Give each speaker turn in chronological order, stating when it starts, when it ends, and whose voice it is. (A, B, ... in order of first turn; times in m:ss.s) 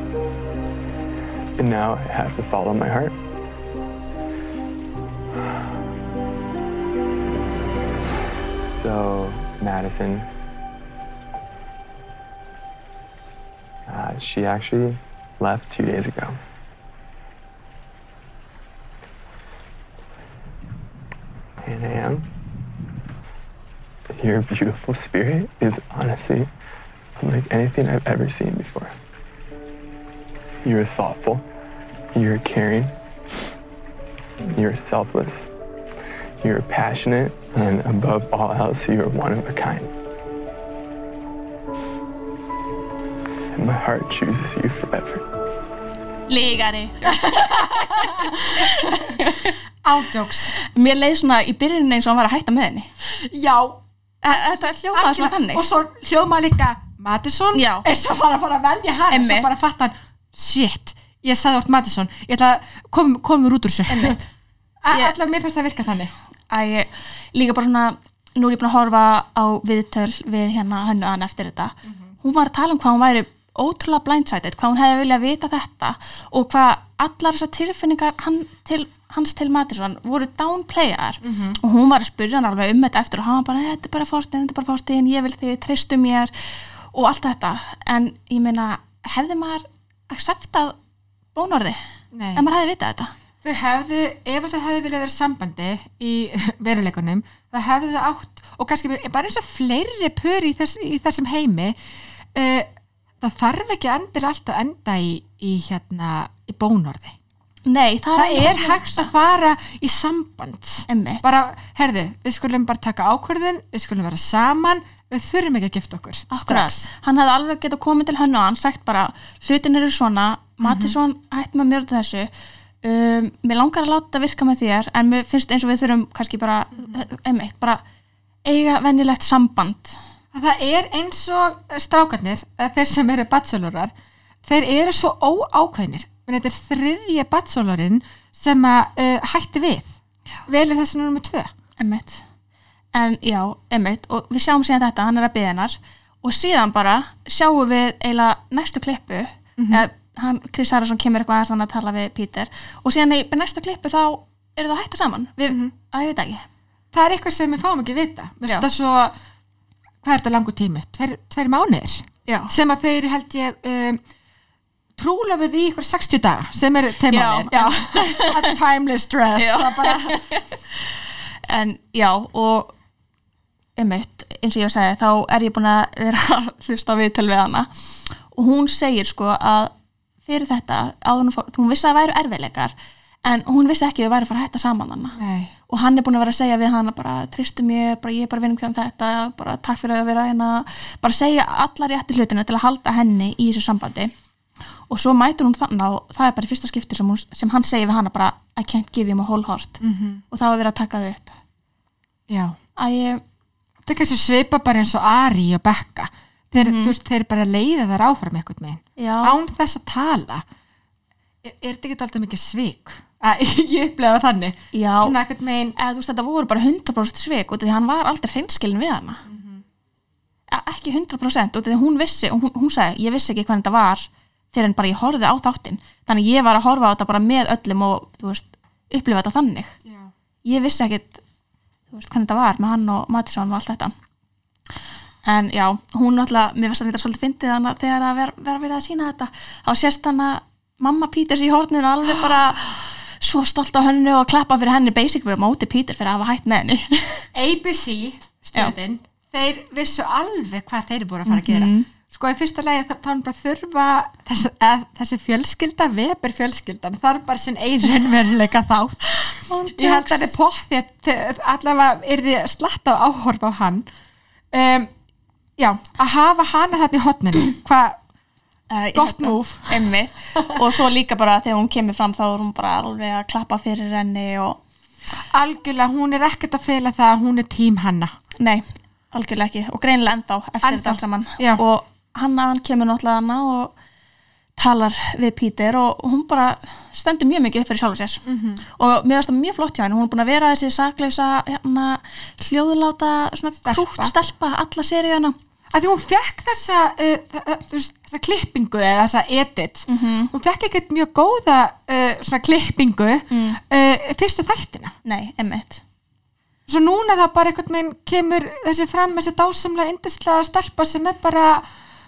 0:01.6-0:03.2 A
0:08.7-0:10.3 A
0:13.9-0:16.4 A
0:21.6-0:22.3 A
0:24.1-0:26.5 A
0:27.2-0:29.0 A
0:30.6-0:31.4 A
0:32.1-0:32.9 A
0:34.5-0:35.5 A
0:36.4-0:39.9 A
0:43.6-0:45.3 A
0:46.3-0:49.6 B
0:47.2-0:49.3 C
0:49.8-0:50.6 C
0:50.6-0:52.9 B
0:53.0-1:04.3 C
0:54.2-0:55.6 B
0:57.5-0:57.8 B
0:59.1-0:59.5 B
1:03.9-1:04.2 B
1:04.8-1:06.1 C
1:06.5-1:30.8 B
1:21.2-1:21.6 C
1:31.4-1:31.8 B
1:32.1-1:32.4 C
1:32.4-1:33.1 B
1:33.4-1:41.8 C
1:42.4-1:42.7 C
1:43.2-1:47.2 C
1:47.7-1:49.1 B
1:48.2-1:56.8 C
1:50.9-1:51.2 B
1:56.3-2:02.3 B
2:00.6-2:01.0 C
2:02.8-2:07.8 B
2:08.4-2:10.0 B
2:10.3-2:13.9 C
2:14.4-2:19.9 C
2:20.5-2:21.5 C
2:21.8-2:22.2 B
2:22.9-2:36.4 B
2:29.6-2:29.8 C
2:35.5-2:35.7 C
2:36.9-2:39.1 C
2:40.0-2:44.0 C
2:42.3-2:42.5 B
2:45.0-2:50.2 C
2:47.1-2:48.5 B
2:49.4-2:50.9 B
2:51.5-2:52.7 B
2:53.8-2:59.7 B
3:00.2-3:14.1 B
3:05.2-3:05.5 C
3:14.9-3:19.8 B
3:19.8-3:20.2 C
3:20.3-3:21.4 B
3:22.3-3:22.6 C
3:22.8-3:23.2 B
3:23.9-3:30.4 C
3:26.6-3:27.0 B
3:29.0-3:29.4 B
3:31.4-3:35.8 C
3:34.7-3:35.2 B
3:35.8-3:39.2 B
3:39.3-3:39.6 C
3:40.5-3:49.7 B
3:49.8-3:50.1 C
3:50.4-3:51.2 B
3:51.9-3:53.9 B
3:55.2-4:07.3 B
4:07.3-4:23.9 C
4:11.3-4:11.9 B
4:19.5-4:20.3 B
4:24.5-4:24.9 C
4:25.6-4:28.0 C
4:28.7-4:34.6 B
4:28.9-4:29.8 C
4:35.3-4:38.2 C
4:38.4-4:43.8 B
4:40.6-4:41.6 C
4:44.6-4:55.4 B
4:48.3-4:48.6 C
4:53.6-4:54.1 C
4:55.7-5:04.9 C
4:59.9-5:00.3 B
5:03.3-5:03.6 B
5:05.0-5:05.8 B
5:06.7-5:11.6 C